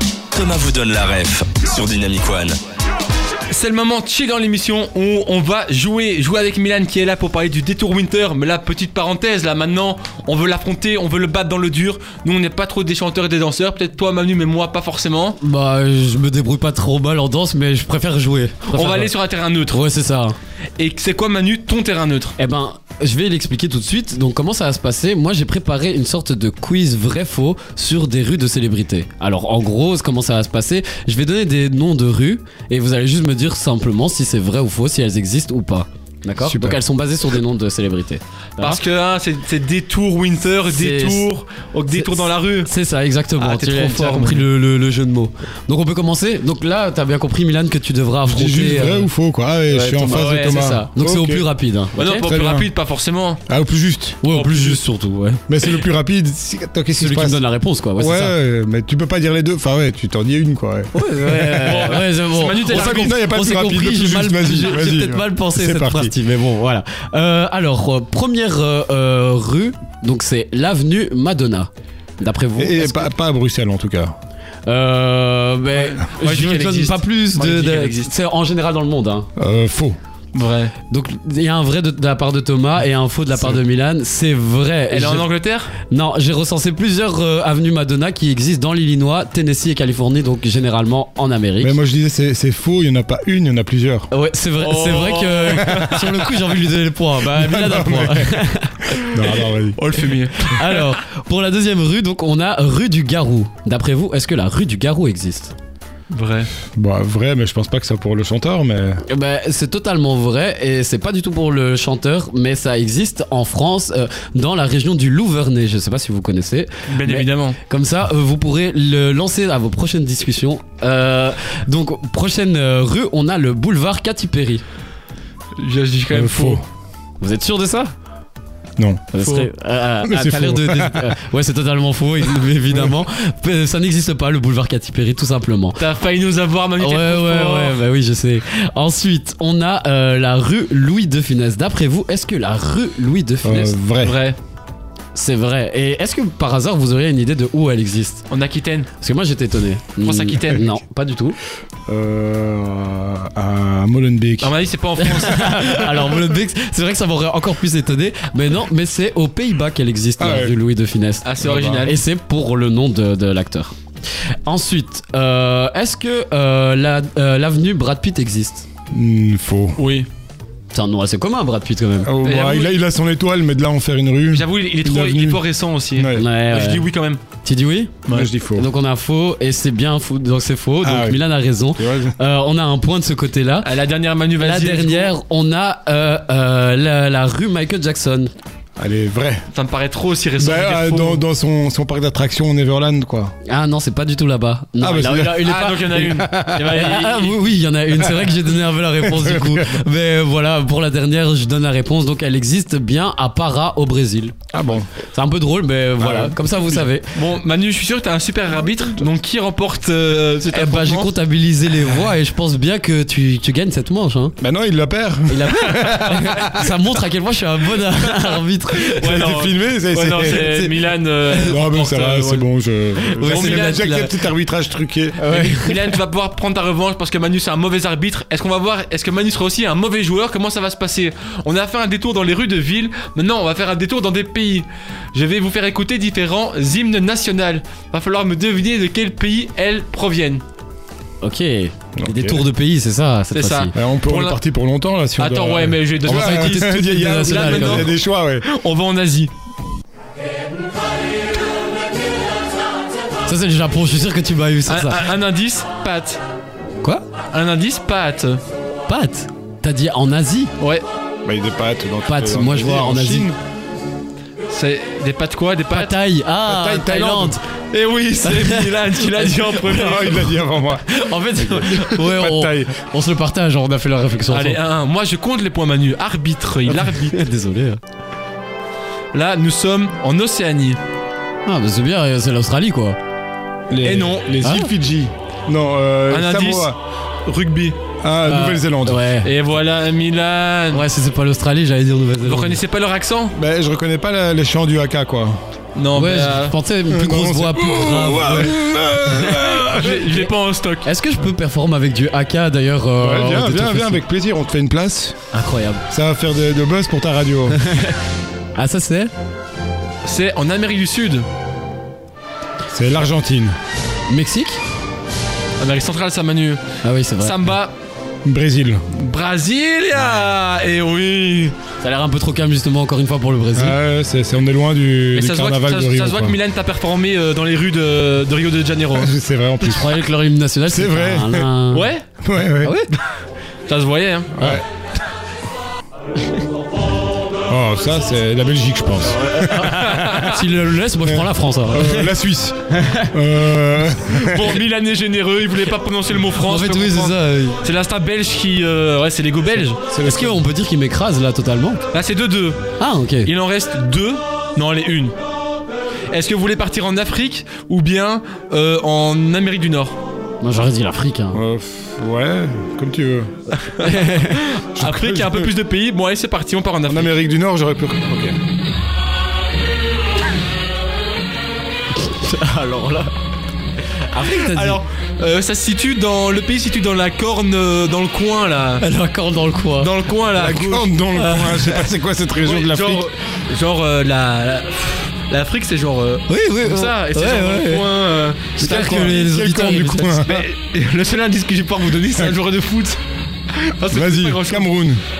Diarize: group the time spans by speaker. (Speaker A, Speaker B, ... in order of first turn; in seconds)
Speaker A: 0.3-2.6
Speaker B: 3.5-15.4, 18.7-19.9, 20.8-22.4, 38.6-42.7, 43.4-44.5, 50.1-50.6, 52.0-53.4, 61.3-63.2, 75.7-78.1, 80.3-80.7, 84.9-85.7, 94.6-96.0, 99.8-100.8, 106.1-106.5, 116.9-117.6, 125.6-126.7, 129.2-129.5, 135.8-137.8, 144.0-144.4, 148.3-148.9, 150.0-150.7, 154.4-155.9, 161.2-162.0, 169.8-170.1, 172.2-172.8, 174.3-177.2, 183.6-185.1, 189.5-191.2, 195.4-197.4, 207.1-211.1, 218.8-222.5, 223.2-224.0, 225.3-240.4, 243.3-244.4, 245.2-249.3, 254.7-256.2, 257.3-258.4, 260.6-260.8, 264.5-266.0, 266.9-270.3, 271.4-271.9, 274.3-277.2, 279.1-280.8, 283.8-284.4, 286.1-287.8, 289.2-290.8, 292.2-293.4, 295.8-296.6, 299.4-300.9, 310.1-311.3, 315.6-316.6, 317.2-317.7, 318.9-321.6, 325.1-329.1, 331.7-332.1, 333.7-334.4, 339.4-340.4, 344.1-349.8, 351.9-352.6, 353.2-355.1, 356.1-360.0, 363.7-367.1, 374.1-378.8, 379.8-381.9, 382.4-389.2, 390.1-393.0, 393.5-394.7
Speaker C: 15.4-19.1, 19.7-20.4, 22.4-38.8, 40.7-41.3, 41.9-49.1, 49.7-52.2, 54.2-55.4, 57.0-58.4, 60.9-73.1, 74.7-79.3, 80.9-85.3, 85.8-91.8, 94.1-99.2, 100.4-105.5, 109.1-124.6, 127.2-127.9, 129.1-135.8, 136.8-143.8, 145.1-148.3, 149.0-151.4, 155.0-161.3, 161.8-163.7, 164.5-168.7, 170.7-172.1, 176.1-176.9, 177.4-177.9, 178.5-183.7, 184.4-188.3, 193.5-204.3, 205.0-207.1, 210.5-214.4, 215.3-219.1, 220.2-221.6, 223.1-224.2, 225.2-225.9, 241.2-243.7, 246.1-247.9, 253.3-255.1, 258.9-260.5, 262.1-263.3, 265.7-267.4, 268.2-270.2, 270.9-274.6, 276.9-277.8, 281.4-283.0, 284.4-284.7, 288.3-289.3, 290.7-292.6, 295.9-299.4, 300.8-304.0, 305.3-305.8, 307.7-307.9, 308.6-309.1, 314.1-314.6, 316.8-317.4, 321.8-323.8, 329.6-331.9, 332.6-332.9, 339.5-342.1, 342.7-343.1, 346.4-347.6, 350.0-351.8, 352.8-353.3, 360.4-361.4, 363.9-364.3, 372.0-373.1, 374.1-374.8, 378.8-379.9, 386.3-387.9, 388.6-390.3
Speaker D: 36.4-36.8, 48.3-51.5, 52.2-52.7, 53.5-54.8, 55.5-57.4, 58.0-60.9, 62.6-66.2, 72.6-74.2, 79.4-80.0, 91.6-94.1, 95.5-96.2, 97.2-98.3, 99.0-99.8, 106.7-109.0, 126.1-126.7, 128.8-129.2, 130.0-131.2, 143.4-144.2, 151.9-154.6, 160.2-160.6, 161.4-161.9, 168.9-169.8, 172.0-176.3, 178.1-178.7, 180.8-181.2, 181.8-182.2, 188.8-189.5, 190.4-193.3, 194.8-196.7, 198.0-198.4, 199.0-199.8, 204.5-204.9, 206.0-206.8, 214.4-216.8, 219.0-220.5, 221.5-225.3, 242.0-242.5, 243.7-248.5, 261.2-263.4, 266.5-267.3, 269.6-270.9, 271.4-272.8, 283.7-286.8, 288.0-289.0, 293.4-295.4, 296.9-300.2, 303.0-305.2, 305.9-307.6, 312.7-313.6, 318.2-318.9, 323.6-326.4, 328.9-330.0, 330.7-331.5, 332.2-332.8, 334.4-334.6, 337.5-340.4, 341.0-344.6, 349.9-350.4, 361.3-363.3, 364.8-365.5, 366.9-368.4, 380.4-383.1, 388.6-390.4, 393.8-395.0